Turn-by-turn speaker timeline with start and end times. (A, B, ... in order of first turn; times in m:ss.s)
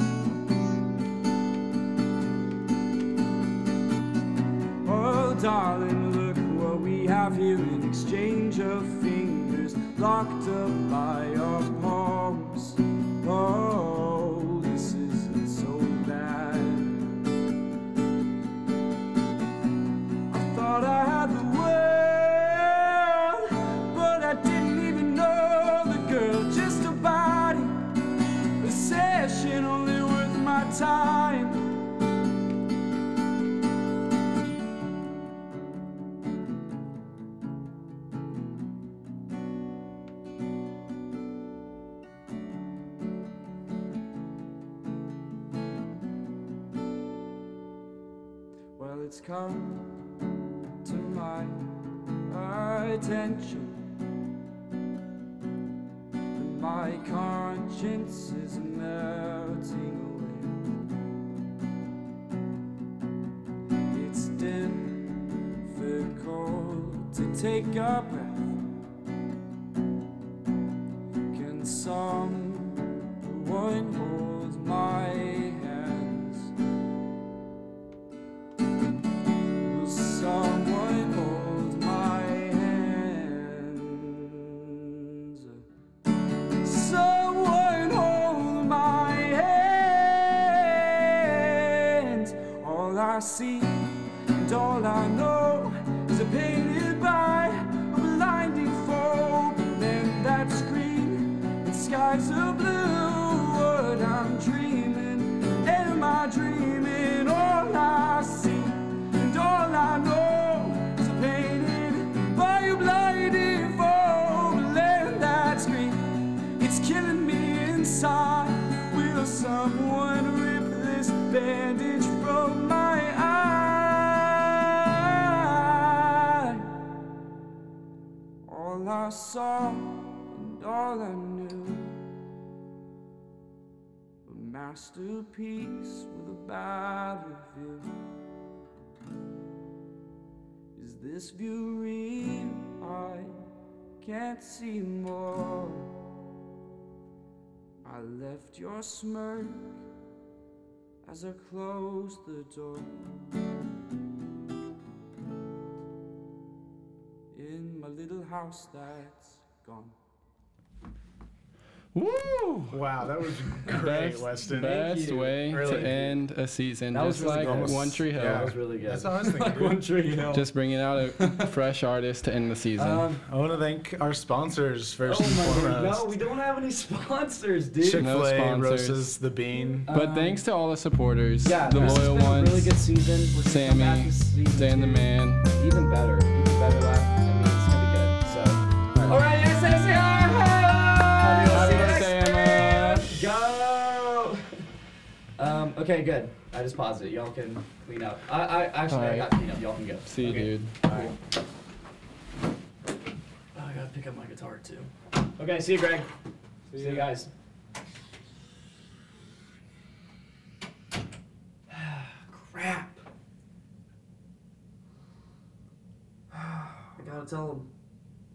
0:04.8-0:17.1 A
0:20.3-0:27.7 A
0:28.6-0:31.6 A
0:48.8-0:49.9 A
0:50.8-0:51.6 A
0:52.3-0:53.8 A
0:56.3-1:00.6 A
1:03.9-1:08.6 A
1:11.3-1:16.5 A
1:19.6-1:25.6 A
1:26.6-1:56.0 A
1:56.6-2:06.8 A
2:08.4-2:12.0 A
2:14.2-2:17.9 A
2:20.7-2:23.4 A
2:24.0-2:26.0 A
2:27.8-2:29.8 A
2:31.0-2:33.0 A
2:37.3-2:39.9 A
2:41.9-2:42.8 B
2:42.7-2:46.2 C
2:43.6-2:48.5 B
2:46.9-2:50.5 D
2:47.2-2:49.8 C
2:50.3-2:53.1 B
2:51.2-2:51.5 D
2:52.8-2:53.2 D
2:53.3-2:56.1 C
2:55.0-2:58.1 D
2:57.8-2:59.9 C
2:58.0-2:59.1 B
2:59.9-3:00.4 D
2:59.9-3:02.8 B
3:01.4-3:14.4 D
3:01.8-3:02.1 C
3:03.4-3:05.5 B
3:11.2-3:13.1 B
3:11.6-3:11.9 C
3:15.4-3:21.1 D
3:18.9-3:19.3 B
3:20.0-3:20.8 B
3:23.5-3:26.1 D
3:26.7-3:27.0 C
3:26.7-3:27.3 D
3:31.7-3:33.0 D
3:36.3-3:37.7 D